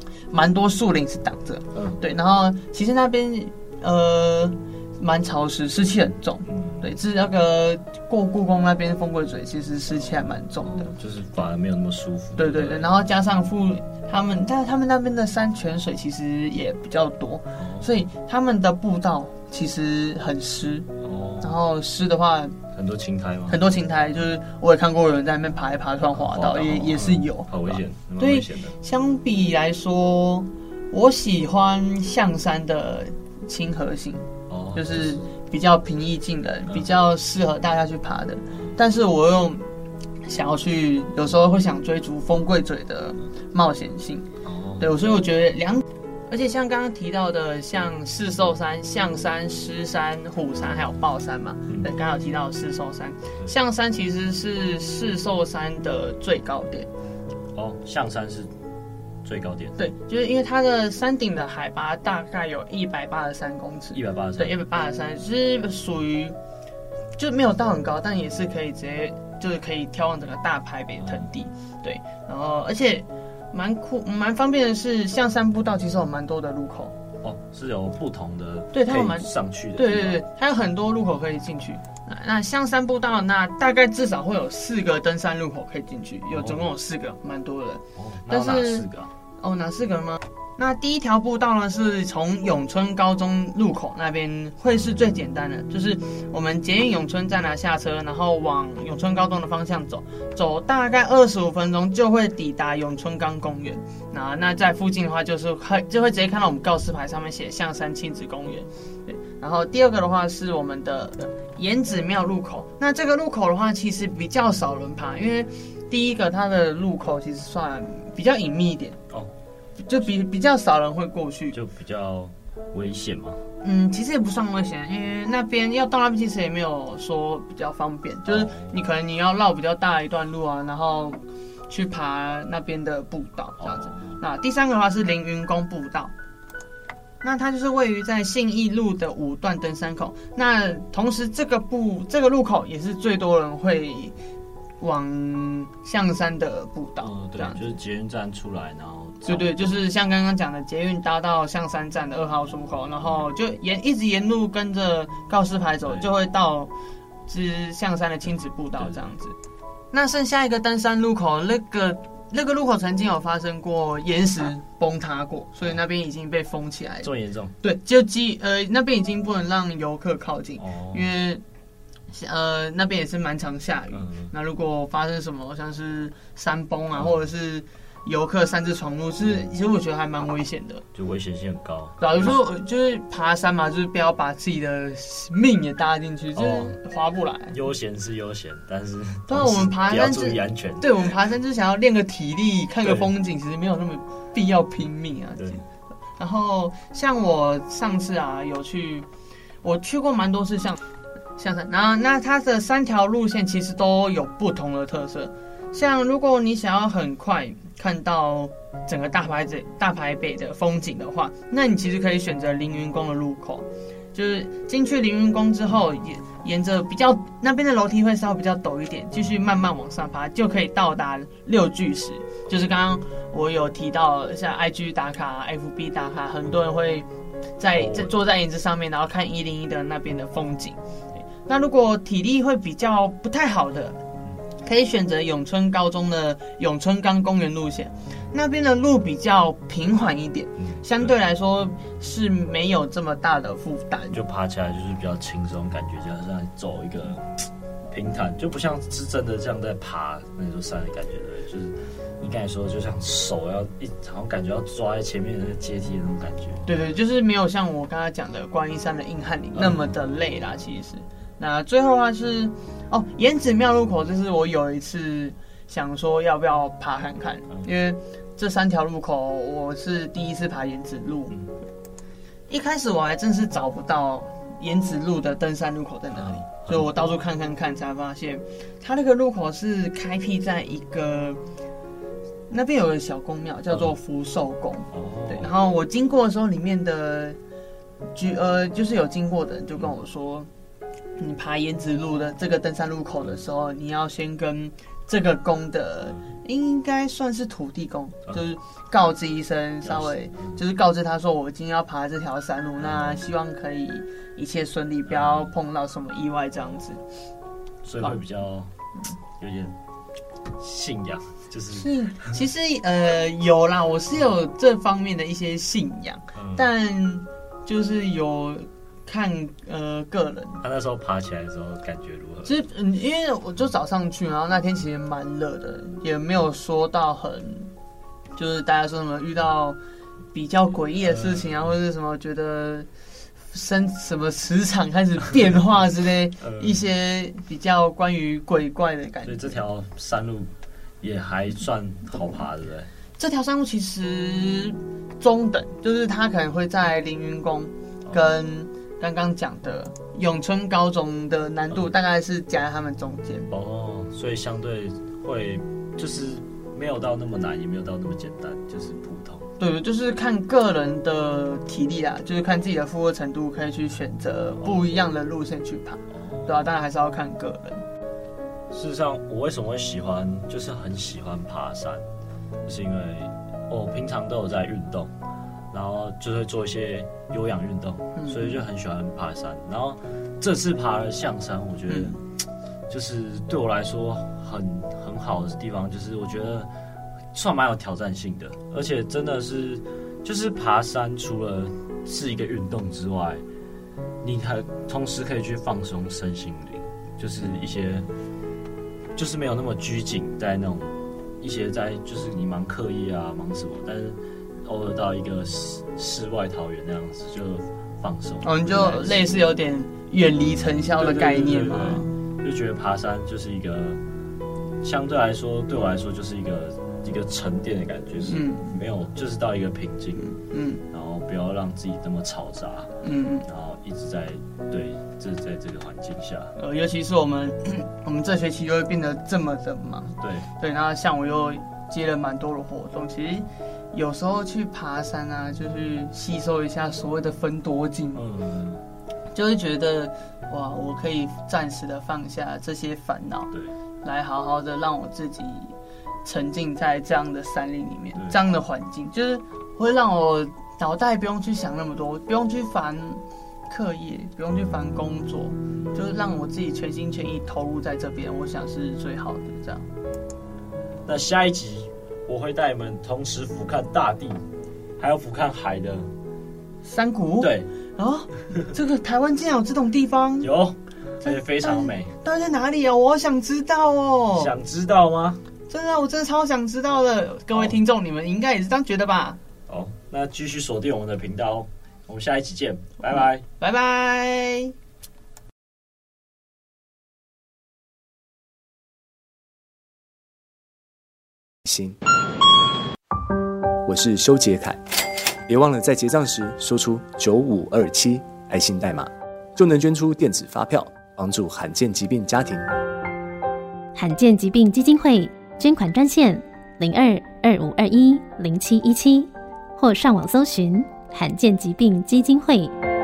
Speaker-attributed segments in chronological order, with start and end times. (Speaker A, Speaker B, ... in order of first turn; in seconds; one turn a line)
Speaker A: 0.3-10.9
Speaker B: 1.7-2.0
Speaker B: 6.5-6.9
Speaker B: 10.6-12.9
Speaker A: 12.4-20.9
Speaker B: 17.6-17.9
Speaker B: 21.0-21.6
Speaker A: 21.4-22.5
Speaker B: 22.7-23.6
Speaker A: 23.5-39.6
Speaker B: 26.1-28.8
Speaker B: 34.5-35.2
Speaker A: 40.2-44.3
Speaker B: 44.4-44.9
Speaker A: 44.8-56.9
Speaker B: 57.5-58.5
Speaker B: 59.2-59.8
Speaker A: 59.8-66.3
Speaker B: 63.9-64.6
Speaker A: 67.2-76.9
Speaker B: 71.0-71.3
Speaker B: 77.2-80.2
Speaker A: 78.7-88.9
Speaker B: 86.3-86.6
Speaker B: 87.9-89.1
Speaker A: 89.4-119.0
Speaker A: 119.8-121.6
Speaker B: 121.5-123.4
Speaker A: 123.6-136.1
Speaker B: 128.2-128.8
Speaker B: 133.6-134.2
Speaker A: 137.2-144.1
Speaker A: 144.8-147.7
Speaker B: 147.0-149.7
Speaker A: 149.2-156.7
Speaker A: 157.3-159.3
Speaker B: 158.8-159.0
Speaker A: 159.9-171.4
Speaker B: 167.0-167.5
Speaker B: 170.6-171.1
Speaker A: 172.1-180.8
Speaker B: 173.9-174.3
Speaker B: 180.9-182.3
Speaker A: 182.0-187.6
Speaker B: 186.3-186.8
Speaker B: 187.5-191.1
Speaker A: 189.3-195.6
Speaker B: 192.8-193.1
Speaker B: 195.3-195.6
Speaker A: 196.2-199.1
Speaker A: 199.6-200.8
Speaker A: 201.4-227.1
Speaker A: 227.6-230.8
Speaker B: 227.7-228.1
Speaker A: 231.4-234.0
Speaker A: 234.6-244.2
Speaker B: 240.6-241.1
Speaker B: 244.1-256.6
Speaker A: 256.6-271.3
Speaker B: 259.6-259.8
Speaker A: 272.5-281.4
Speaker B: 276.1-276.9
Speaker A: 282.5-287.4
Speaker B: 284.9-285.5
Speaker A: 288.1-290.5
Speaker A: 291.2-307.0
Speaker B: 299.8-300.6
Speaker B: 302.8-303.2
Speaker B: 305.1-305.5
Speaker B: 307.8-308.7
Speaker B: 309.4-309.7
Speaker B: 310.6-312.4
Speaker A: 311.7-320.6
Speaker B: 316.3-316.7
Speaker B: 320.6-322.6
Speaker A: 322.4-327.7
Speaker A: 328.4-329.8
Speaker A: 330.3-332.9
Speaker B: 331.0-331.7
Speaker A: 333.5-339.6
Speaker B: 336.4-336.9
Speaker B: 339.2-340.5
Speaker B: 341.0-342.9
Speaker A: 343.2-353.5
Speaker B: 348.0-348.3
Speaker B: 353.5-359.4
Speaker A: 359.6-367.8
Speaker B: 364.6-364.9
Speaker B: 366.1-366.6
Speaker B: 368.7-372.0
Speaker B: 372.6-375.1
Speaker B: 375.7-382.2
Speaker A: 378.1-378.6
Speaker A: 381.9-382.1
Speaker B: 382.9-386.7
Speaker B: 387.3-393.4
Speaker B: 394.2-398.1
Speaker B: 399.1-409.3
Speaker A: 408.4-412.1
Speaker B: 411.0-414.0
Speaker B: 414.8-420.3
Speaker A: 418.2-418.7
Speaker A: 420.2-420.8
Speaker B: 420.9-422.9
Speaker A: 423.0-423.4
Speaker B: 423.4-426.5
Speaker A: 426.6-438.2
Speaker B: 430.2-430.5
Speaker B: 438.1-438.8
Speaker A: 439.3-445.7
Speaker A: 446.2-459.9
Speaker B: 461.1-464.4
Speaker B: 465.0-466.1
Speaker A: 466.8-470.5
Speaker B: 467.4-467.7
Speaker B: 470.4-472.1
Speaker A: 471.2-474.5
Speaker B: 474.3-475.4
Speaker A: 475.7-479.4
Speaker B: 479.7-483.4
Speaker A: 483.1-484.7
Speaker C: 491.6-492.0
Speaker C: 493.9-494.8
Speaker C: 495.5-502.7
Speaker D: 503.9-512.7